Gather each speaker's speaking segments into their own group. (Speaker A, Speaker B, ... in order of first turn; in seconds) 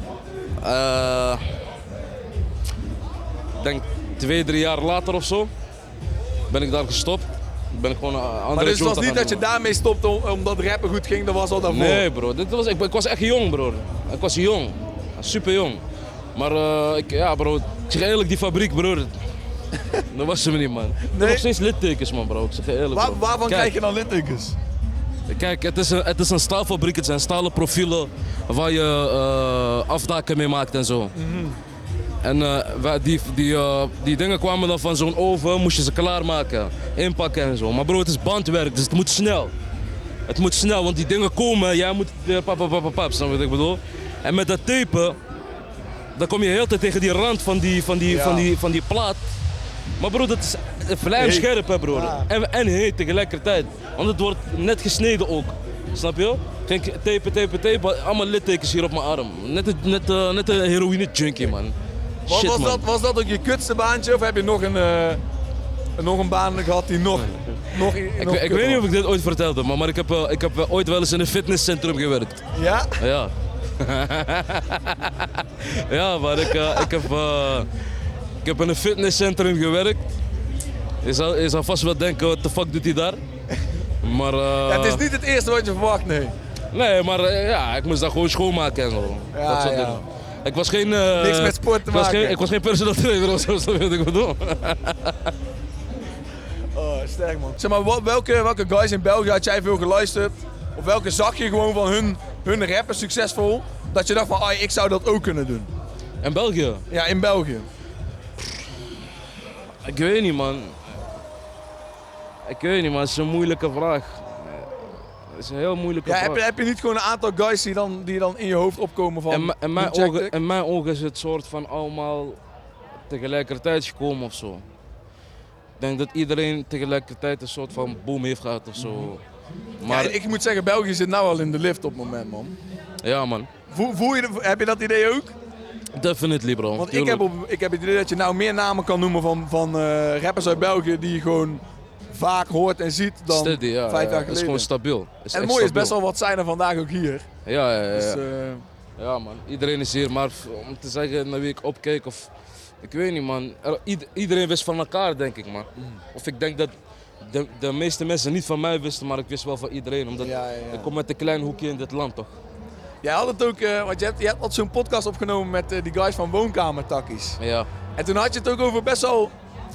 Speaker A: 0.6-1.4, 3.6-5.5, 6.5-9.4, 11.7-15.8, 16.3-19.1, 20.1-23.7, 25.3-31.1, 32.2-39.5, 40.3-45.2, 46.1-49.2, 50.0-62.8, 67.2-72.4, 73.0-77.7, 78.4-80.1, 81.0-83.2, 84.0-85.0, 86.7-95.3, 106.2-106.8, 109.8-110.8, 112.5-116.4, 119.3-122.4, 123.1-124.6, 125.8-129.2, 129.8-130.2, 133.0-133.5, 135.9-137.2, 143.3-145.9, 147.4-148.2, 149.0-162.3, 167.4-167.7
Speaker B: 8.5-12.1, 21.1-21.4, 22.9-24.6, 31.1-31.6, 48.0-48.5, 51.1-52.3, 62.3-65.2, 66.0-68.9, 72.5-72.9, 76.4-76.9, 84.7-86.3, 89.3-90.0, 91.1-92.4, 96.7-105.7, 106.9-107.7, 116.0-120.3, 128.8-129.1, 129.8-132.5, 133.7-135.3, 136.8-144.7, 145.3-147.3, 147.9-148.6, 160.2-160.9, 163.0-167.4, 168.0-169.3